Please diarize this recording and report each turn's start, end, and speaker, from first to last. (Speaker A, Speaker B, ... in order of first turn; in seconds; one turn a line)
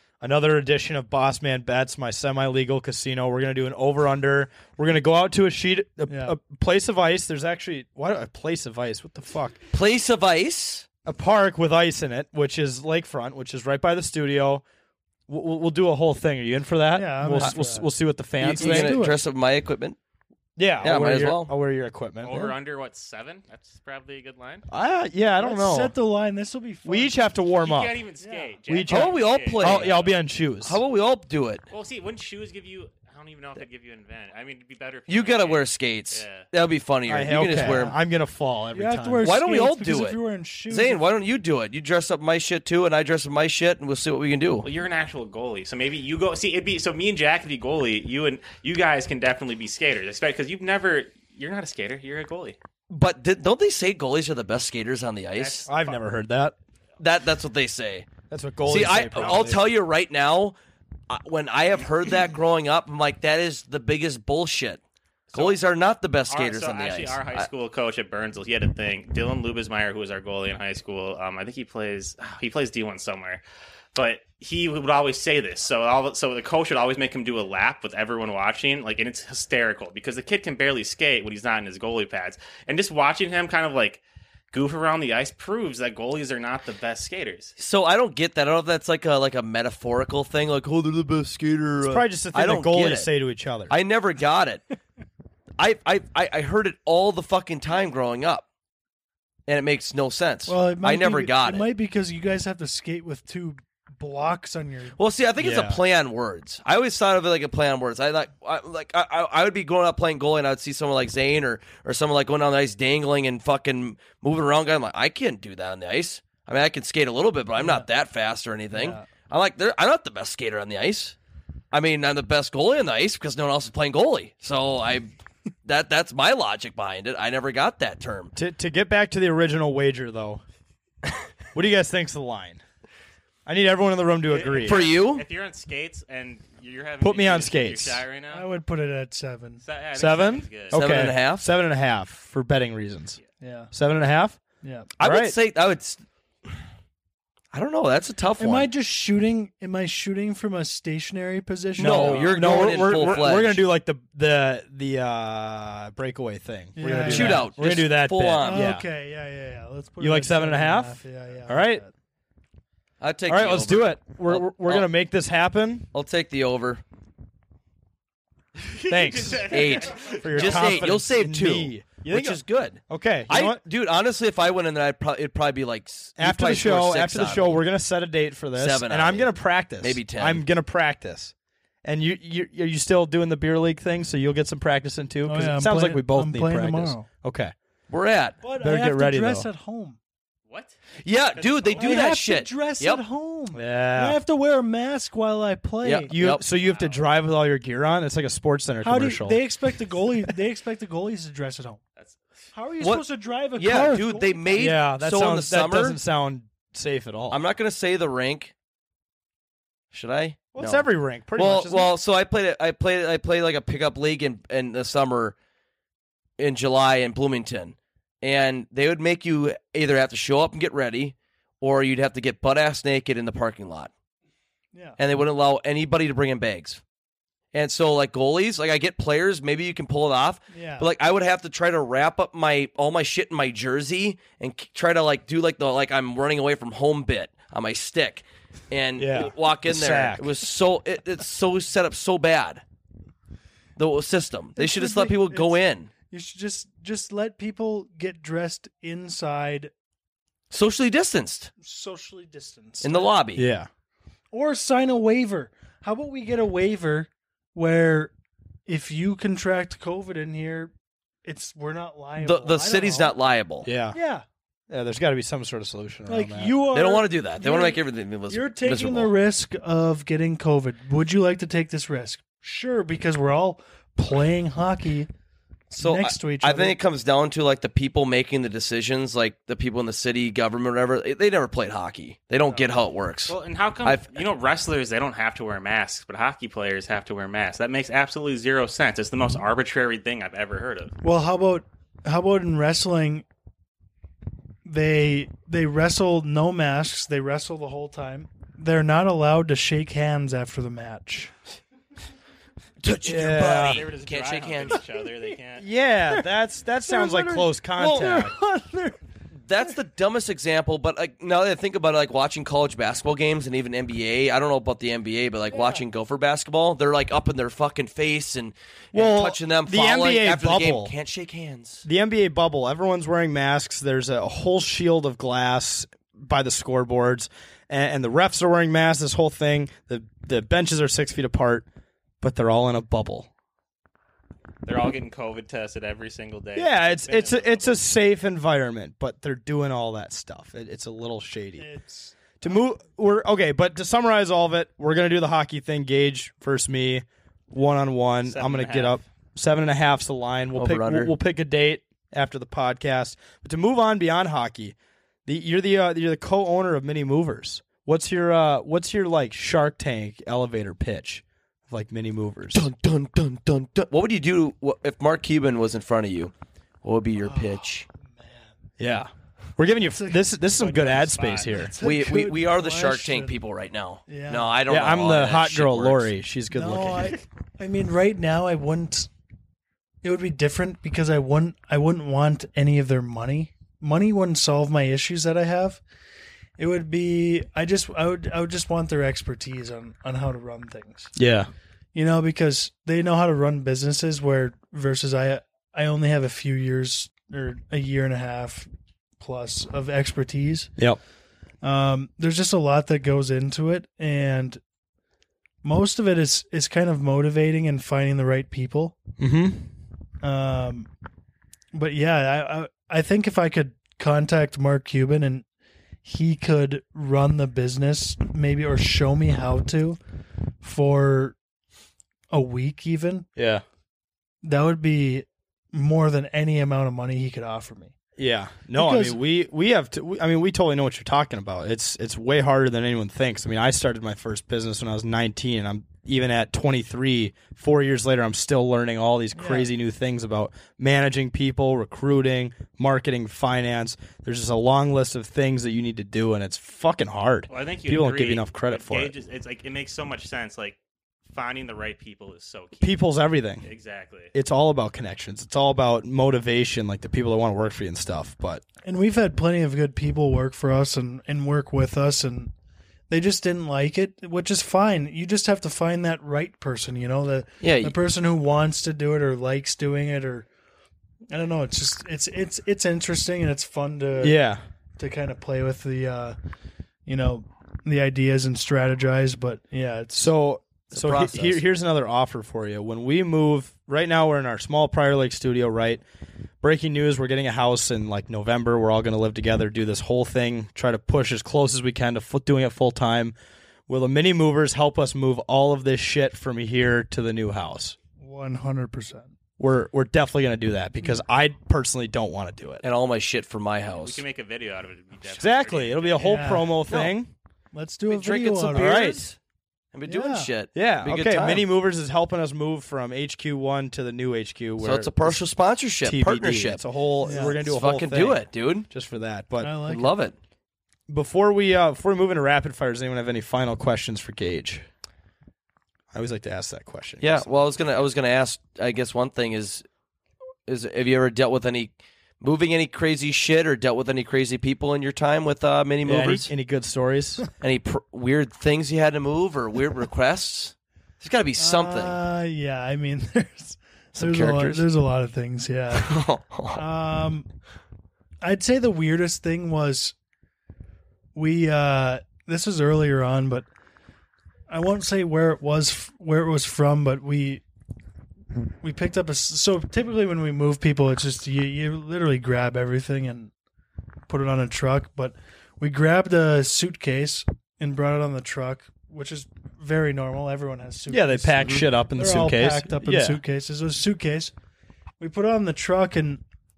Speaker A: 0.2-9.6
Speaker B: 6.1-6.4
Speaker C: 9.7-10.9
Speaker A: 11.1-14.6
Speaker A: 15.3-19.1
Speaker B: 16.9-17.9
Speaker C: 18.4-20.0
Speaker B: 18.5-19.2
Speaker A: 20.6-22.5
Speaker C: 20.8-21.5
Speaker D: 22.2-24.6
Speaker A: 24.7-25.9
Speaker B: 25.4-27.2
Speaker A: 26.9-28.0
Speaker D: 27.6-30.2
Speaker B: 28.2-28.6
Speaker A: 28.7-30.8
Speaker C: 28.9-31.6
Speaker D: 31.7-36.5
Speaker C: 35.1-38.0
Speaker A: 37.1-39.3
Speaker B: 38.7-41.0
Speaker C: 39.2-40.2
Speaker C: 40.7-44.7
Speaker D: 44.6-52.6
Speaker C: 52.9-55.7
Speaker D: 55.4-56.0
Speaker A: 55.7-56.5
Speaker C: 57.0-58.1
Speaker A: 58.3-59.7
Speaker C: 58.6-60.5
Speaker D: 59.2-59.5
Speaker C: 61.1-64.8
Speaker D: 65.3-65.6
Speaker C: 65.3-67.5
Speaker D: 66.3-73.4
Speaker D: 74.0-87.5
Speaker C: 87.6-93.1
Speaker A: 91.8-93.8
Speaker C: 93.7-94.6
Speaker C: 95.6-98.5
Speaker C: 99.5-101.7
Speaker B: 100.5-105.0
Speaker C: 105.0-121.2
Speaker A: 105.4-105.8
Speaker B: 117.6-117.9
Speaker B: 118.7-119.1
Speaker C: 121.7-125.1
Speaker C: 125.7-128.3
Speaker A: 128.4-130.4
Speaker A: 131.5-132.6
Speaker A: 133.5-134.8
Speaker D: 134.3-138.4
Speaker C: 134.6-135.3
Speaker A: 137.0-138.0
Speaker B: 138.3-139.6
Speaker D: 139.6-140.8
Speaker A: 140.0-143.2
Speaker C: 140.7-141.5
Speaker B: 143.4-143.7
Speaker A: 143.7-144.4
Speaker B: 144.6-144.9
Speaker C: 145.0-146.5
Speaker A: 145.0-145.3
Speaker C: 147.5-148.7
Speaker B: 148.4-153.4
Speaker C: 151.8-153.7
Speaker A: 151.8-158.8
Speaker B: 156.8-157.6
Speaker C: 156.9-158.7
Speaker B: 158.4-161.9
Speaker A: 160.0-161.8
Speaker C: 163.0-164.9
Speaker A: 163.3-165.9
Speaker C: 165.9-166.8
Speaker D: 168.6-170.9
Speaker A: 168.9-173.6
Speaker C: 169.4-177.6
Speaker A: 176.2-181.3
Speaker C: 178.6-180.5
Speaker A: 181.8-187.5
Speaker B: 185.2-187.1
Speaker C: 187.9-188.4
Speaker B: 188.4-190.0
Speaker A: 188.6-189.5
Speaker D: 190.5-190.8
Speaker C: 191.0-193.0
Speaker D: 191.3-191.9
Speaker B: 191.8-196.1
Speaker A: 193.5-194.2
Speaker C: 195.8-196.4
Speaker A: 196.1-199.4
Speaker D: 196.5-197.1
Speaker B: 198.8-201.8
Speaker B: 202.5-204.7
Speaker C: 202.8-206.0
Speaker A: 204.6-207.4
Speaker C: 207.3-208.5
Speaker C: 209.9-215.4
Speaker A: 210.5-211.9
Speaker C: 216.4-223.9
Speaker B: 224.7-225.0
Speaker C: 225.0-226.8
Speaker C: 227.5-242.6
Speaker B: 230.5-230.9
Speaker A: 239.0-240.4
Speaker C: 243.8-245.9
Speaker B: 244.6-249.7
Speaker C: 250.5-251.5
Speaker B: 251.6-253.2
Speaker C: 252.8-253.5
Speaker A: 253.3-253.7
Speaker B: 254.3-258.1
Speaker B: 258.7-260.7
Speaker B: 261.2-263.1
Speaker C: 262.2-263.7
Speaker A: 263.6-264.0
Speaker B: 263.9-264.2
Speaker A: 264.7-266.6
Speaker B: 266.1-275.1
Speaker C: 266.7-269.1
Speaker C: 275.7-284.1
Speaker B: 275.8-276.8
Speaker D: 283.3-290.9
Speaker B: 291.0-293.2
Speaker B: 294.7-301.3
Speaker C: 302.8-304.8
Speaker A: 303.0-303.8
Speaker D: 303.4-305.6
Speaker A: 305.6-308.3
Speaker B: 306.9-309.0
Speaker C: 309.3-321.9
Speaker B: 315.5-315.8
Speaker A: 318.9-320.9
Speaker A: 321.8-331.7
Speaker A: 332.2-333.3
Speaker D: 334.6-337.8
Speaker A: 336.6-341.7
Speaker B: 341.6-342.5
Speaker A: 342.4-362.7
Speaker D: 348.3-349.0
Speaker C: 350.6-351.1
Speaker C: 362.5-366.3
Speaker C: 366.8-367.9
Speaker B: 367.2-368.5
Speaker A: 368.8-371.8
Speaker B: 369.8-373.4
Speaker C: 371.8-376.1
Speaker B: 374.1-374.7
Speaker A: 374.7-377.2
Speaker B: 376.5-379.1
Speaker B: 380.0-385.8
Speaker B: 386.6-391.1
Speaker A: 391.2-391.5
Speaker B: 391.9-400.7
Speaker B: 401.6-404.6
Speaker B: 405.6-409.0
Speaker A: 409.2-409.7
Speaker B: 410.2-410.9
Speaker B: 411.7-415.5
Speaker B: 416.0-420.0
Speaker B: 420.6-421.4
Speaker B: 422.3-423.3
Speaker A: 423.4-423.6
Speaker B: 424.4-428.0
Speaker A: 428.2-449.1
Speaker B: 428.8-429.2
Speaker B: 439.4-439.7
Speaker D: 447.5-450.8
Speaker D: 451.3-453.0
Speaker A: 452.8-453.7
Speaker D: 453.6-454.3
Speaker A: 454.3-458.6
Speaker B: 458.8-462.5
Speaker B: 463.1-470.5
Speaker C: 467.6-468.0
Speaker B: 471.3-474.4
Speaker A: 474.2-474.6
Speaker B: 475.0-476.4
Speaker B: 477.1-480.3
Speaker A: 480.1-486.0
Speaker C: 480.9-481.6
Speaker A: 486.6-493.4
Speaker A: 493.9-498.0
Speaker B: 498.2-499.3
Speaker A: 499.6-502.8
Speaker C: 502.8-504.2
Speaker D: 504.0-506.4
Speaker A: 505.3-507.3
Speaker B: 506.2-506.8
Speaker C: 506.9-507.2
Speaker B: 507.7-509.2
Speaker C: 508.1-509.4
Speaker A: 508.7-509.3
Speaker C: 509.9-511.7
Speaker B: 510.1-510.6
Speaker A: 510.7-515.5
Speaker C: 514.8-518.9
Speaker A: 516.0-519.8
Speaker B: 517.2-517.7
Speaker B: 519.6-520.1
Speaker C: 519.9-520.4
Speaker A: 521.1-524.9
Speaker A: 526.1-527.5
Speaker C: 527.2-529.9
Speaker C: 530.7-536.5
Speaker A: 536.0-537.4
Speaker C: 537.6-542.2
Speaker B: 541.6-546.2
Speaker C: 544.1-544.8
Speaker C: 546.0-546.8
Speaker B: 546.7-547.5
Speaker B: 548.4-550.1
Speaker B: 551.4-553.7
Speaker B: 554.7-557.6
Speaker B: 558.8-563.5
Speaker B: 564.3-574.5
Speaker A: 571.1-573.4
Speaker C: 571.6-571.9
Speaker B: 575.2-576.4